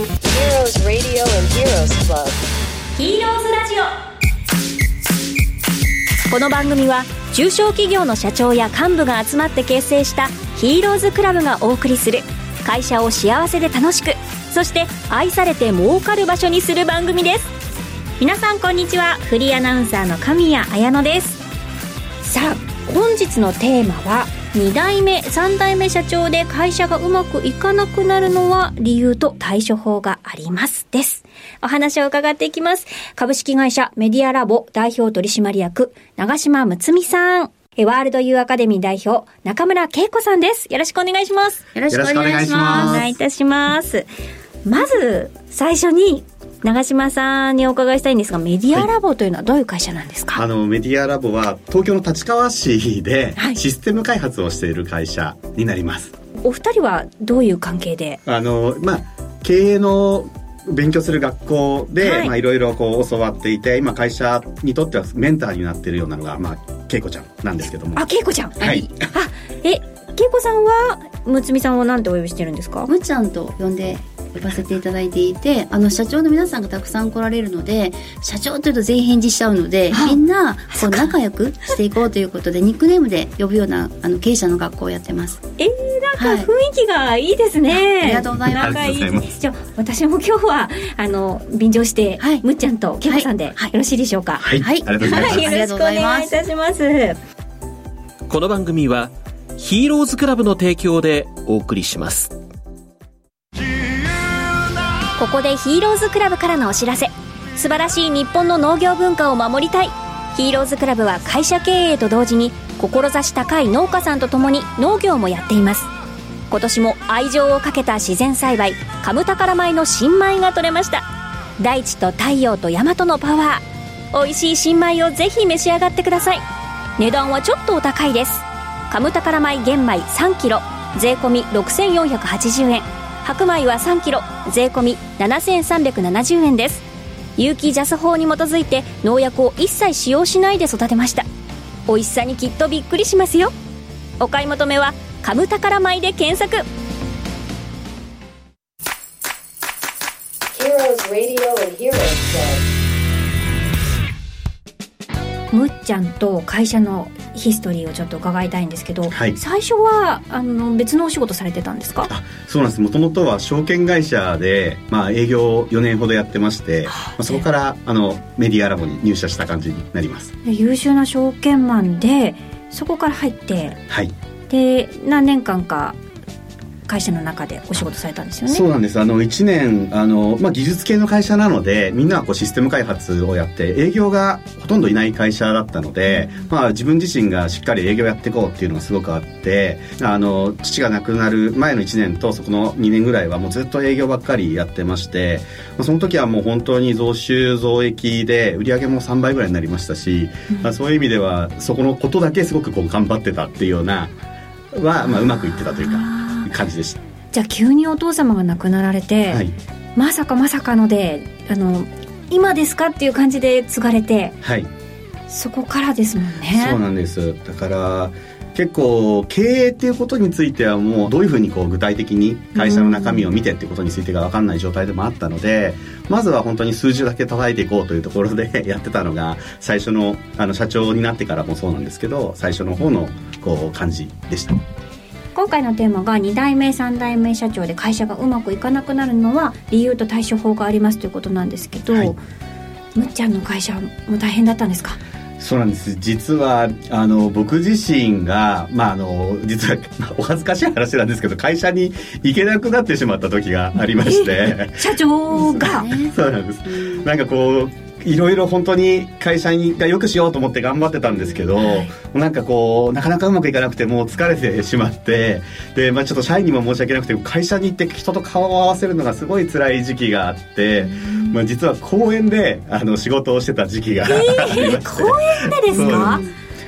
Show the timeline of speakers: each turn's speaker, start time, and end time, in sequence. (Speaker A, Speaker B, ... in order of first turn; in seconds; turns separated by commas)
Speaker A: 0.2-2.4, Speaker B: 2.9-3.9, Speaker B: 6.3-17.5, Speaker B: 18.2-21.4, Speaker B: 22.2-41.6, Speaker C: 41.7-43.1, Speaker D: 41.9-43.1, Speaker B: 42.6-44.1, Speaker B: 44.6-50.4, Speaker D: 50.3-56.1, Speaker B: 56.4-58.2, Speaker D: 58.2-68.0, Speaker B: 62.0-62.3, Speaker B: 67.9-72.9, Speaker D: 68.6-69.1, Speaker C: 72.9-85.4, Speaker B: 79.9-80.2, Speaker B: 80.7-81.1, Speaker B: 85.6-94.5, Speaker C: 86.2-86.5, Speaker C: 87.7-88.8, Speaker D: 88.4-89.3, Speaker C: 92.2-92.4, Speaker C: 93.1-93.7, Speaker D: 94.4-95.4, Speaker C: 94.6-96.4, Speaker B: 95.0-97.2, Speaker E: 98.3-102.3, Speaker B: 105.2-115.9, Speaker B: 116.5-121.0, Speaker B: 121.6-126.5, Speaker B: 127.0-136.8, Speaker B: 137.4-141.2, Speaker B: 141.9-143.5, Speaker B: 144.2-146.6, Speaker A: 150.5-152.6, Speaker B: 155.5-162.1, Speaker D: 159.1-159.4, Speaker D: 162.1-170.3, Speaker B: 166.8-167.4, Speaker B: 170.4-173.8, Speaker B: 174.5-176.0, Speaker B: 176.8-178.6, Speaker D: 178.4-204.1, Speaker B: 200.5-200.7, Speaker D: 204.7-207.0, Speaker B: 205.6-206.5, Speaker B: 207.3-209.4, Speaker B: 209.9-214.4, Speaker D: 214.4-214.7, Speaker B: 215.3-216.8, Speaker D: 216.5-234.6, Speaker B: 222.5-223.3, Speaker B: 235.3-242.2, Speaker D: 241.9-242.2, Speaker B: 242.9-245.0, Speaker D: 245.4-276.3, Speaker B: 253.8-255.9, Speaker C: 255.3-257.1, Speaker C: 261.1-261.4, Speaker B: 261.6-261.9, Speaker B: 274.0-276.2, Speaker C: 275.7-276.3